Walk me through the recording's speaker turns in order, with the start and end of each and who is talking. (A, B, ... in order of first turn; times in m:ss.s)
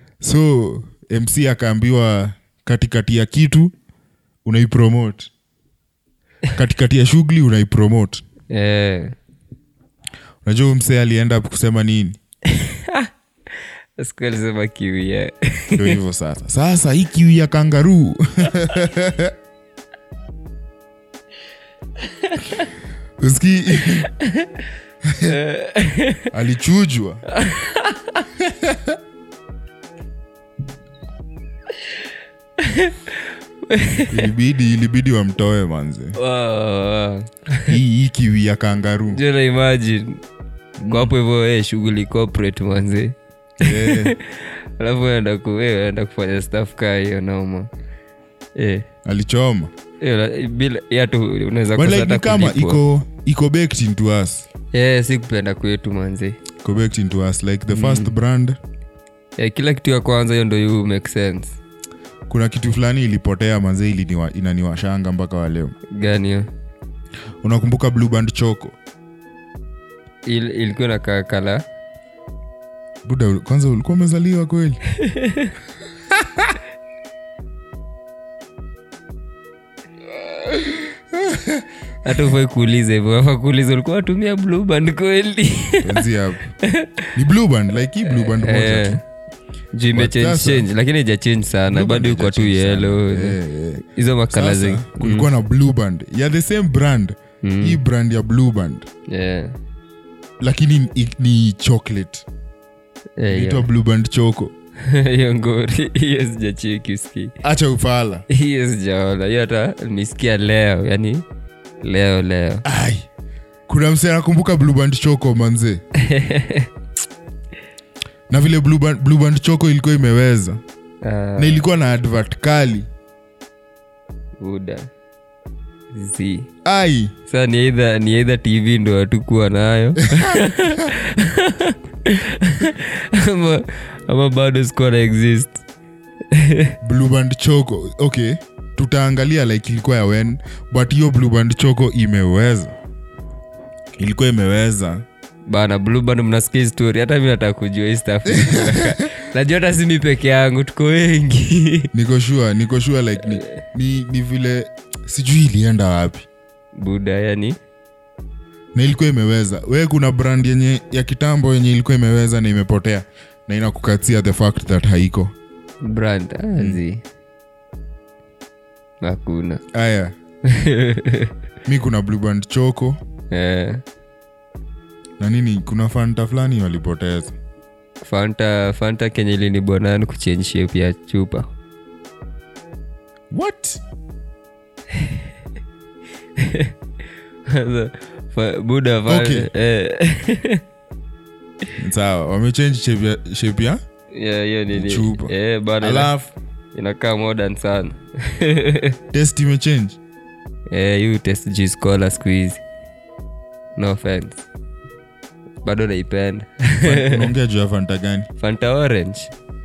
0:00.2-0:03.7 A
0:04.4-0:05.3 A
0:06.5-0:08.2 A
0:08.5-0:09.1 B
0:10.4-0:12.2 A
0:12.4-0:16.0 B
0:15.7-0:19.3 A
0:22.0-0:22.7 B
0:23.2-0:24.1 A
0:23.8-0:24.6 B
0:25.0-0:25.4 A
0:25.3-0:26.3 B
0:26.3-0:27.3 A
0:27.3-0:28.2 B
0:28.4-0:29.0 A
0:32.6-0:34.3 B
0:34.1-0:36.2 A
0:36.2-0:37.8 B
0:37.6-0:39.2 A
0:39.1-0:40.2 B
0:40.8-0:47.7 B
0:43.6-0:44.1 A
0:48.6-0:48.8 B
0:49.0-0:49.7 A
0:50.0-0:52.8 B
0:51.8-0:54.4 A
0:54.7-0:56.4 B
0:56.6-0:58.6 A
0:57.7-0:58.1 B
0:59.4-1:01.6 B
1:02.3-1:05.7 A
1:05.9-1:06.5 B
1:07.4-1:08.8 A
1:10.2-1:11.6 B
1:13.0-1:14.8 A
1:14.9-1:15.5 B
1:16.2-1:16.5 A
1:20.6-1:22.3 A
1:22.0-1:26.0 B
1:25.8-1:26.5 A
1:26.6-1:27.1 B
1:27.1-1:29.0 A
1:28.0-1:29.0 B
1:29.8-1:35.3 B
1:29.9-1:30.7 A
1:31.7-1:38.9 A
1:37.4-1:37.8 B
1:39.1-1:39.6 B
1:40.4-1:42.2 A
1:43.2-1:43.6 B
1:43.3-1:44.5 A
1:44.8-1:47.4 B
1:47.4-1:48.2 A
1:48.3-1:51.2 B
1:51.8-1:52.6 B
1:52.6-1:53.0 A
1:53.7-1:55.8 A
1:56.0-1:56.7 B
1:58.3-2:00.6 A
2:01.0-2:01.6 B
2:01.4-2:02.9 A
2:04.4-2:04.9 B
2:05.9-2:06.5 B
2:06.6-2:07.1 A
2:07.3-2:15.6 B
2:10.0-2:10.9 A
2:16.3-2:16.7 B
2:16.8-2:22.7 A
2:24.0-2:25.0 A
2:25.5-2:31.9 B
2:28.3-2:29.0 A
2:31.9-2:36.2 A
2:36.8-2:37.6 B
2:38.7-2:45.3 A
2:45.8-2:47.0 B
2:49.0-2:49.6 B
2:49.7-2:50.1 A
2:50.4-2:51.3 B
2:51.6-2:53.0 A
2:53.3-2:53.8 B
2:55.2-2:57.3 A
2:58.0-3:01.5 B
3:03.3-3:03.8 A
3:04.9-3:05.2 B
3:06.4-3:06.7 B
3:07.4-3:10.6 B
3:09.1-3:09.5 A
3:11.8-3:13.8 A
3:14.1-3:16.1 B
3:14.7-3:16.3 A
3:16.7-3:19.0 B
3:19.1-3:20.0 A
3:20.7-3:22.6 B
3:23.8-3:24.4 B
3:25.6-3:27.3 B
3:26.8-3:28.3 A
3:28.4-3:29.3 B